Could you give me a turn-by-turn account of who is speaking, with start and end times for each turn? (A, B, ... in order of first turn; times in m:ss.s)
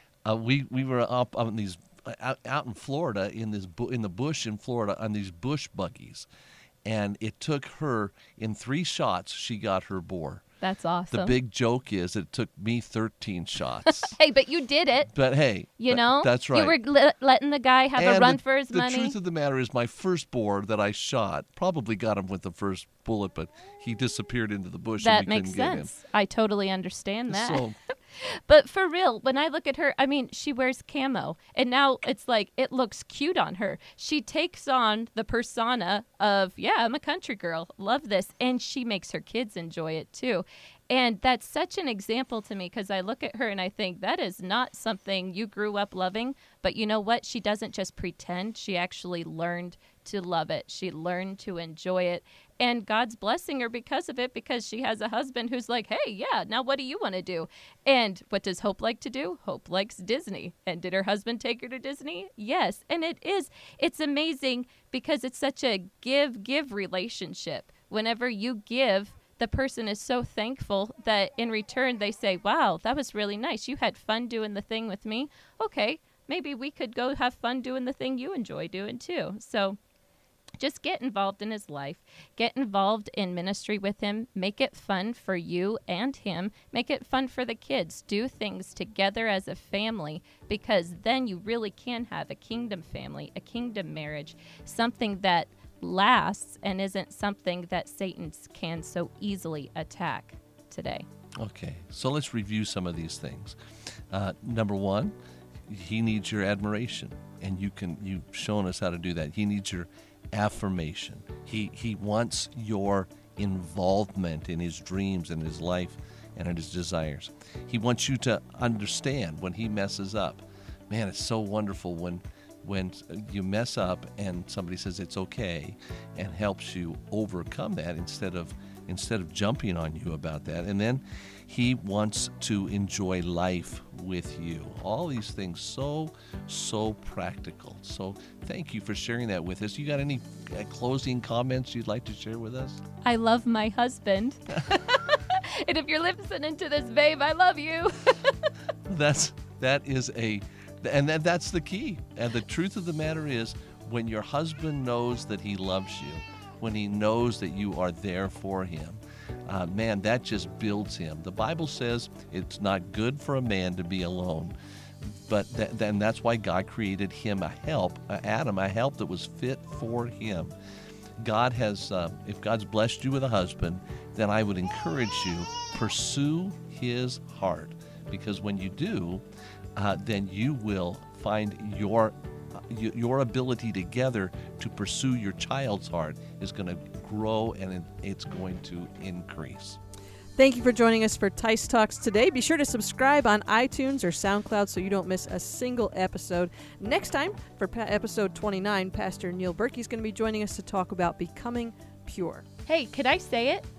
0:00.2-0:06.3 A
0:06.8-0:10.4 A
0:10.6-0:11.4 B
0:11.1-0:14.2 A
0:13.8-0:15.1 B
0:15.1-0:16.8 A
0:15.8-0:19.2 B
0:18.0-0:25.9 A
0:25.0-1:19.8 B
0:27.3-0:27.7 A
1:20.6-1:41.0 B
1:41.4-1:43.6 A
1:44.1-1:45.1 A
1:45.7-2:22.8 A
2:23.0-2:28.4 B
2:28.9-2:50.5 A
2:51.2-2:59.2 A
2:59.8-3:09.8 A
3:10.4-3:22.4 C
3:22.7-3:23.7 B